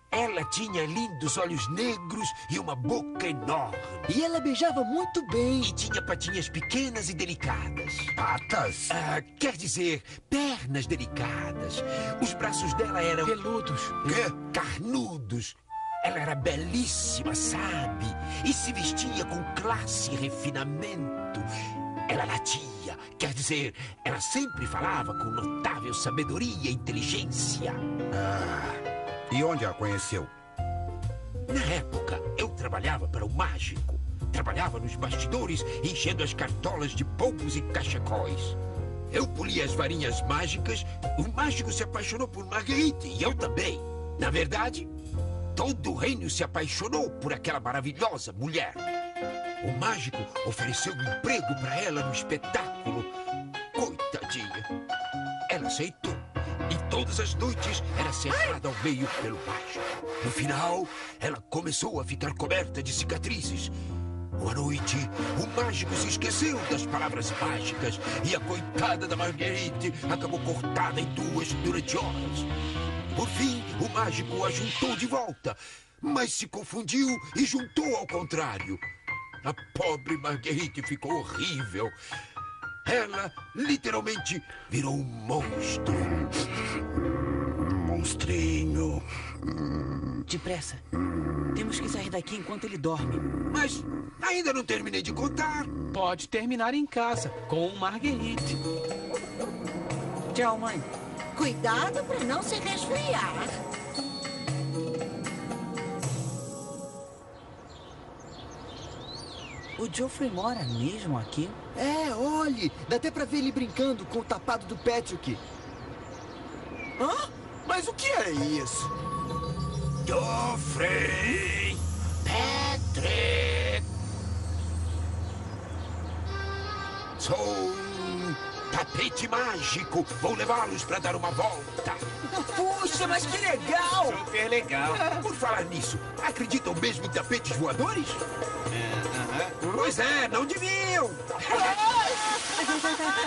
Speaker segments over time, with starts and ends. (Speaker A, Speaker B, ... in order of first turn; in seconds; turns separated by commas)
Speaker A: 0.1-4.1, Speaker B: 4.1-5.7, Speaker A: 5.6-8.1, Speaker C: 8.2-8.9, Speaker A: 8.9-13.3, Speaker D: 13.2-13.9, Speaker A: 14.0-21.5, Speaker A: 22.1-27.8, Speaker C: 28.1-30.3, Speaker A: 31.5-38.6, Speaker A: 39.1-44.9, Speaker A: 45.5-48.8, Speaker A: 49.6-53.1, Speaker A: 53.7-54.7, Speaker A: 55.5-63.7, Speaker A: 64.4-72.5, Speaker A: 73.1-78.8, Speaker A: 79.4-82.0, Speaker A: 82.8-86.3, Speaker C: 87.5-90.2, Speaker E: 90.3-90.8, Speaker E: 91.5-93.2, Speaker A: 93.5-95.7, Speaker D: 95.9-98.6, Speaker E: 100.3-100.9, Speaker F: 101.3-103.6, Speaker E: 109.8-111.6, Speaker B: 111.7-115.4, Speaker G: 117.0-118.9, Speaker A: 120.0-123.8, Speaker A: 127.2-132.0, Speaker B: 132.3-134.3, Speaker H: 133.9-135.1, Speaker A: 135.0-138.2, Speaker H: 138.7-139.5, Speaker A: 139.6-141.8